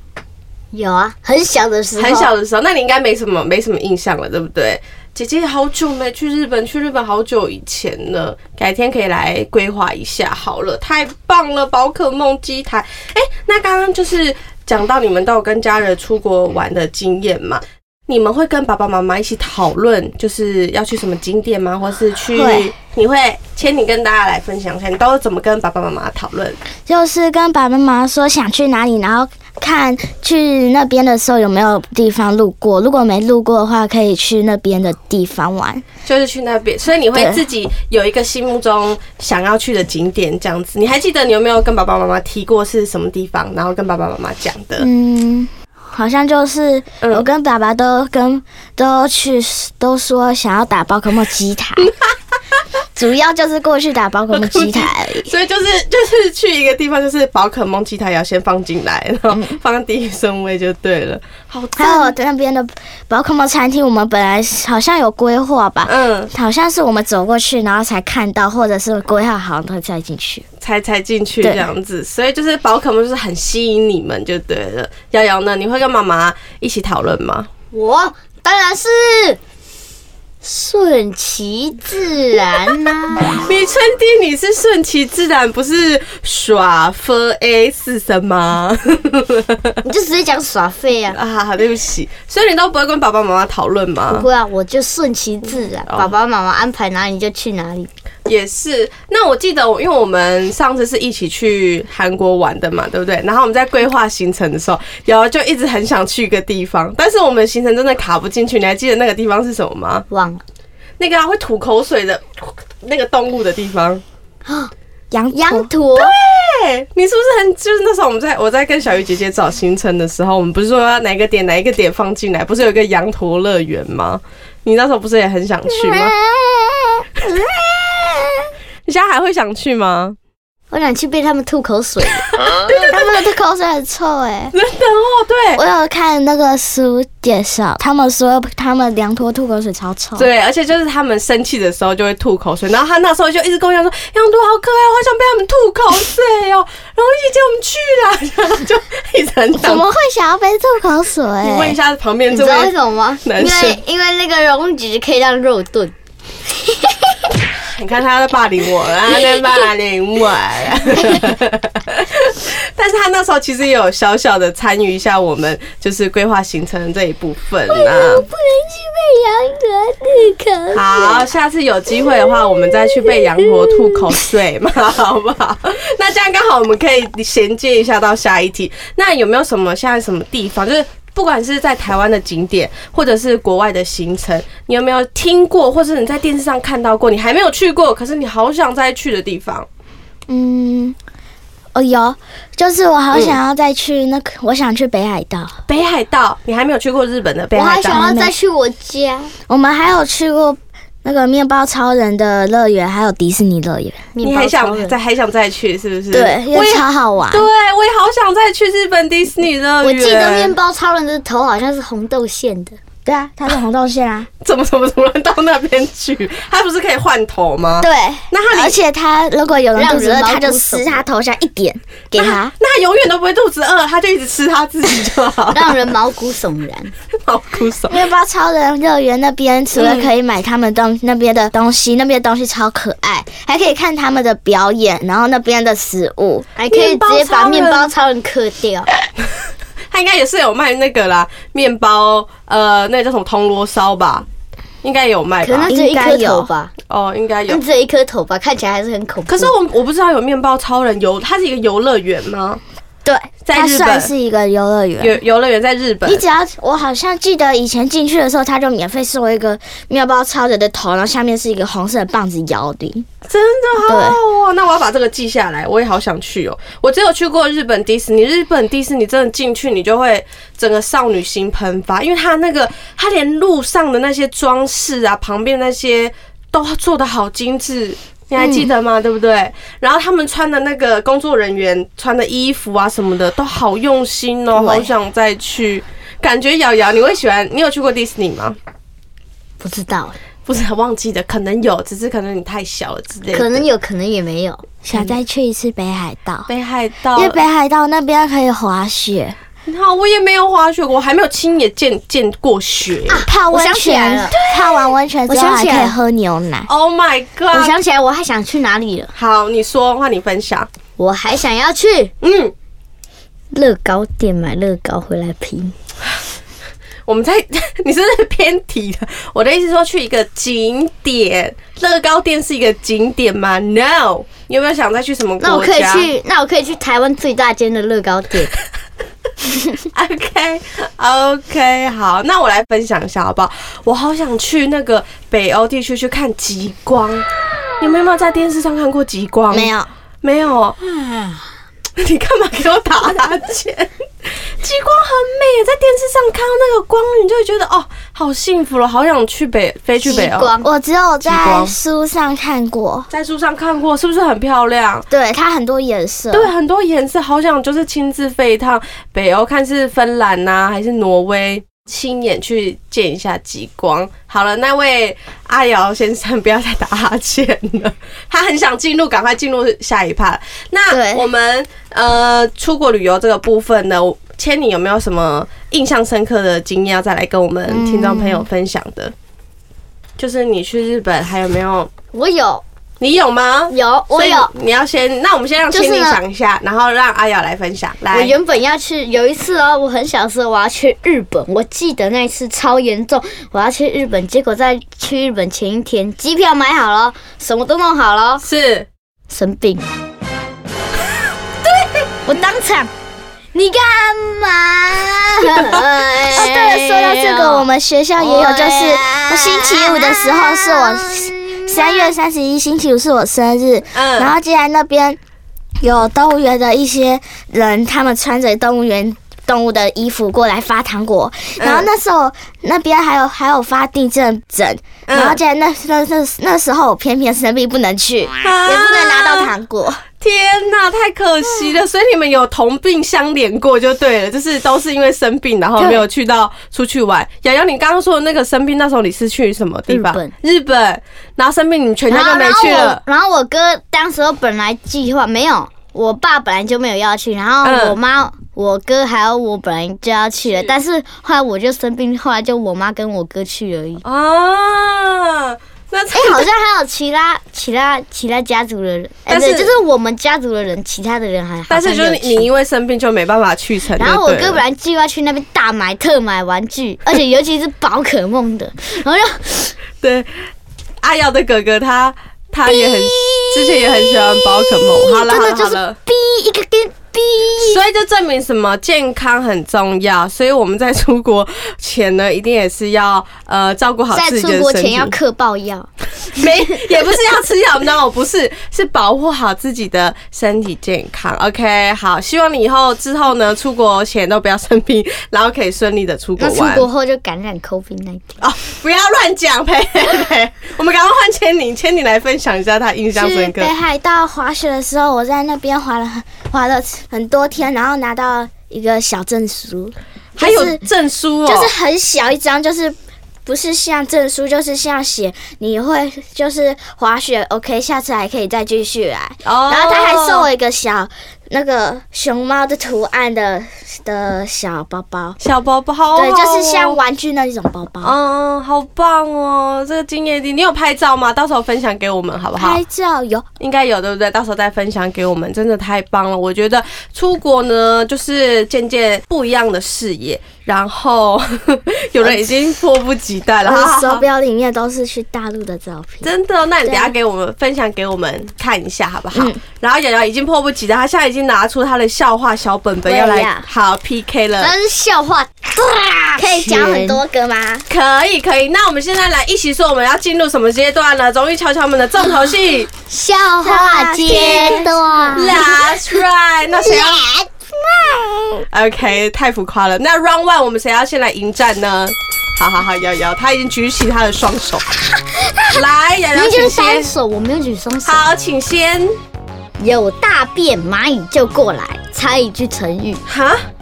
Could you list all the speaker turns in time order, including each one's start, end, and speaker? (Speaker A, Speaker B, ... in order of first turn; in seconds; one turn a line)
Speaker A: 0.7-2.3
Speaker B: 1.9-26.6
Speaker C: 22.3-22.7
Speaker C: 26.9-35.8
Speaker B: 36.0-44.9
Speaker C: 37.1-37.4
Speaker C: 44.8-51.9
Speaker B: 47.0-47.3
Speaker C: 52.9-55.3
Speaker B: 54.3-62.1
Speaker C: 59.3-59.6
Speaker C: 61.8-70.5
Speaker B: 65.8-66.3
Speaker B: 70.6-77.5
Speaker A: 77.7-79.4
Speaker A: 80.4-83.4
Speaker B: 83.3-89.8
Speaker A: 89.8-91.2
Speaker B: 91.1-94.2
Speaker A: 94.1-97.9
Speaker B: 95.9-96.1
Speaker B: 98.2-110.0
Speaker A: 110.1-110.4
Speaker B: 111.0-114.0
Speaker A: 114.5-114.7
Speaker C: 115.1-115.7
Speaker A: 115.3-116.1
Speaker B: 116.0-126.1
Speaker C: 125.8-128.3
Speaker B: 128.8-130.2
Speaker A: 130.7-132.3
Speaker B: 132.3-133.2
Speaker C: 132.9-134.5
Speaker B: 134.5-135.6
Speaker C: 135.5-140.3
Speaker B: 140.2-149.8
Speaker C: 149.5-151.8
Speaker B: 151.4-153.8
Speaker A: 152.3-155.9
Speaker B: 157.6-168.2
Speaker A: 167.7-171.2
Speaker B: 170.7-189.7
Speaker C: 190.3-191.0
Speaker C: 191.7-195.6
Speaker B: 193.1-193.4
Speaker B: 195.7-198.1
Speaker A: 197.5-199.3
Speaker C: 197.8-198.3
Speaker C: 199.5-204.1
Speaker A: 204.1-204.9
Speaker B: 204.2-210.6
Speaker C: 206.1-207.5
Speaker A: 209.8-212.8
Speaker C: 213.0-214.3
Speaker B: 214.4-218.8
Speaker C: 217.8-222.5
Speaker A: 219.8-221.0
Speaker B: 222.1-225.9
Speaker A: 225.5-226.9
Speaker B: 227.2-228.0
Speaker C: 227.9-236.5
Speaker B: 229.7-230.1
Speaker A: 236.6-238.9
Speaker B: 236.7-237.9
Speaker B: 239.9-244.2
Speaker B: 244.8-245.7
Speaker A: 245.4-246.7
Speaker C: 245.7-246.5
Speaker B: 246.9-247.6
Speaker A: 247.5-249.5
Speaker B: 249.3-252.6
Speaker C: 253.0-255.2
Speaker B: 253.4-254.1
Speaker B: 255.0-256.2
Speaker C: 256.0-263.1
Speaker B: 263.3-288.6
Speaker C: 263.8-264.2
Speaker C: 278.4-278.7
Speaker A: 289.6-290.1
Speaker B: 290.4-293.7
Speaker A: 293.3-294.7
Speaker C: 294.8-296.5
Speaker B: 296.5-297.4
Speaker C: 297.1-299.4
Speaker B: 299.6-303.2
Speaker A: 303.1-304.3
Speaker C: 303.2-306.7
Speaker B: 304.3-304.9
Speaker A: 305.3-305.9
Speaker B: 306.7-307.7
Speaker A: 307.5-309.1
Speaker B: 309.1-310.7
Speaker A: 311.0-312.1
Speaker B: 312.2-312.5
Speaker A: 313.5-315.7
Speaker B: 317.1-326.1
Speaker A: 325.4-328.5
Speaker B: 329.9-337.2
Speaker B: 337.8-340.8
Speaker C: 339.5-339.9
Speaker B: 342.0-350.5
Speaker A: 350.0-350.7
Speaker C: 350.6-353.1
Speaker B: 351.2-351.7
Speaker B: 353.1-355.1
Speaker C: 355.1-356.5
Speaker B: 356.3-379.1
Speaker A: 370.9-371.2
Speaker A: 377.7-378.4
Speaker B: 380.2-381.9
Speaker A: 382.1-382.6
Speaker B: 383.0-388.4
Speaker A: 383.7-384.5
Speaker A: 385.7-386.2
Speaker A: 388.1-398.4
Speaker B: 398.4-398.9
Speaker A: 399.3-399.8
Speaker A: 402.2-402.9
Speaker A: 403.5-407.6
Speaker C: 406.2-415.2
Speaker A: 408.2-412.1
Speaker B: 413.9-414.3
Speaker C: 415.8-430.0
Speaker B: 421.6-421.9
Speaker B: 425.1-425.4
Speaker B: 428.4-429.5
Speaker B: 430.2-443.0
Speaker A: 439.9-440.3
Speaker A: 442.1-454.0
Speaker B: 447.6-448.0
Speaker B: 454.0-456.5
Speaker A: 456.1-462.5
Speaker B: 459.3-459.7
Speaker B: 461.7-464.6
Speaker A: 464.0-469.7
Speaker B: 470.0-470.3
Speaker B: 471.0-476.0
Speaker A: 475.0-477.8
Speaker B: 477.6-485.1
Speaker A: 484.1-486.4
Speaker B: 486.2-496.9
Speaker A: 496.4-498.4
Speaker B: 498.4-503.7
Speaker C: 503.1-510.8
Speaker B: 510.4-511.7
Speaker C: 511.4-525.4
Speaker B: 519.4-520.5
Speaker B: 525.4-527.0
Speaker C: 526.1-528.1
Speaker B: 528.0-532.8
Speaker C: 532.5-533.5
Speaker B: 533.6-544.2
Speaker C: 542.2-542.5
Speaker C: 543.6-546.3
Speaker B: 546.2-554.7
Speaker C: 546.8-547.1
Speaker C: 549.3-549.6
Speaker C: 553.0-553.6
Speaker A: 554.6-557.2
Speaker C: 556.4-557.9
Speaker B: 557.9-562.9
Speaker A: 563.1-565.6
Speaker C: 563.6-565.8
Speaker B: 564.2-567.2
Speaker C: 566.8-568.6
Speaker B: 568.7-574.9
Speaker B: 575.7-577.1
Speaker A: 576.3-578.2
Speaker B: 578.0-579.2
Speaker A: 579.8-583.2
Speaker B: 583.2-583.6